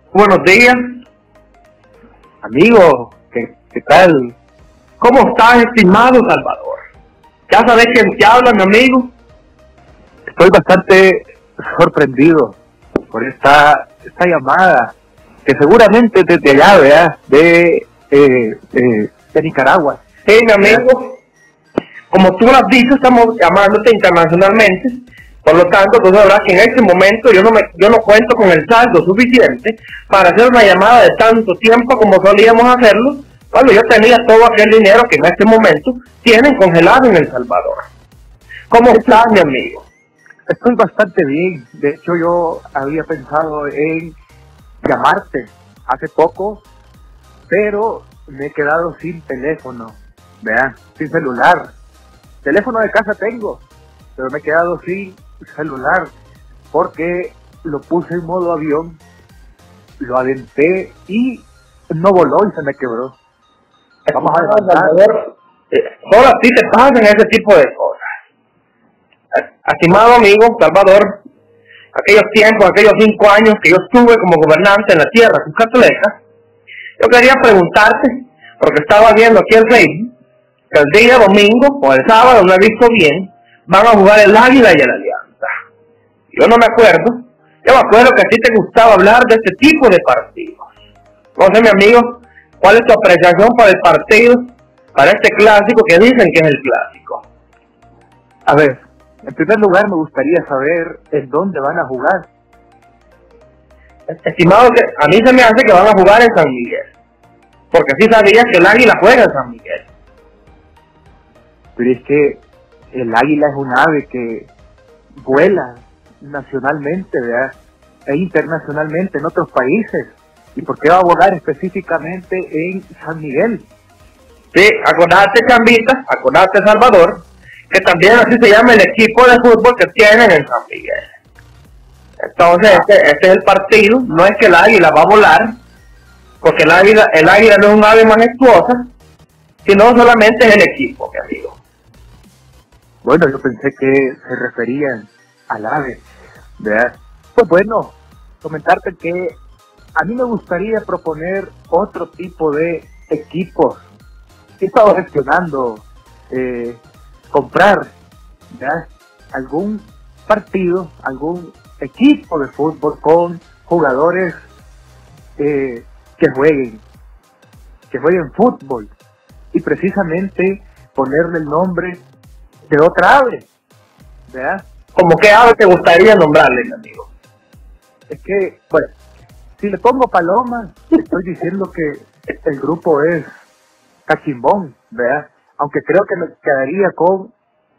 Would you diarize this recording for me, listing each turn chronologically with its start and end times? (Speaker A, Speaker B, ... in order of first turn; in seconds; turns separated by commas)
Speaker A: 0.1-1.0, Speaker B: 2.4-4.3, Speaker A: 5.0-6.8, Speaker A: 7.5-9.1, Speaker B: 10.3-12.6, Speaker B: 13.1-14.9, Speaker B: 15.4-20.0, Speaker A: 20.3-21.2, Speaker A: 22.1-37.9, Speaker A: 38.7-39.9, Speaker B: 38.9-39.3, Speaker B: 40.5-44.1, Speaker B: 44.8-46.6, Speaker B: 47.5-51.7, Speaker B: 52.4-53.6, Speaker B: 54.2-56.1, Speaker B: 56.7-59.0, Speaker B: 60.0-63.2, Speaker A: 64.1-68.1, Speaker B: 64.2-65.0, Speaker A: 69.3-71.2, Speaker A: 71.9-76.2, Speaker A: 77.0-80.1, Speaker A: 80.7-85.5, Speaker A: 86.3-90.7, Speaker A: 91.4-97.2, Speaker B: 98.5-102.2, Speaker A: 104.1-106.9, Speaker A: 107.7-109.8, Speaker B: 111.8-112.4, Speaker B: 112.9-114.5, Speaker B: 115.2-117.5, Speaker B: 118.1-123.7, Speaker A: 124.5-131.1, Speaker A: 132.3-135.6, Speaker A: 136.4-138.9, Speaker A: 139.7-141.6, Speaker B: 143.0-146.0, Speaker B: 146.6-149.4, Speaker B: 150.0-153.8, Speaker B: 154.6-157.9, Speaker B: 158.5-164.4, Speaker B: 165.4-166.8, Speaker B: 167.9-168.9, Speaker B: 169.5-172.0, Speaker B: 172.7-173.5, Speaker B: 174.3-174.6, Speaker A: 174.9-177.1, Speaker B: 178.1-178.9, Speaker B: 179.6-183.3, Speaker B: 184.1-187.3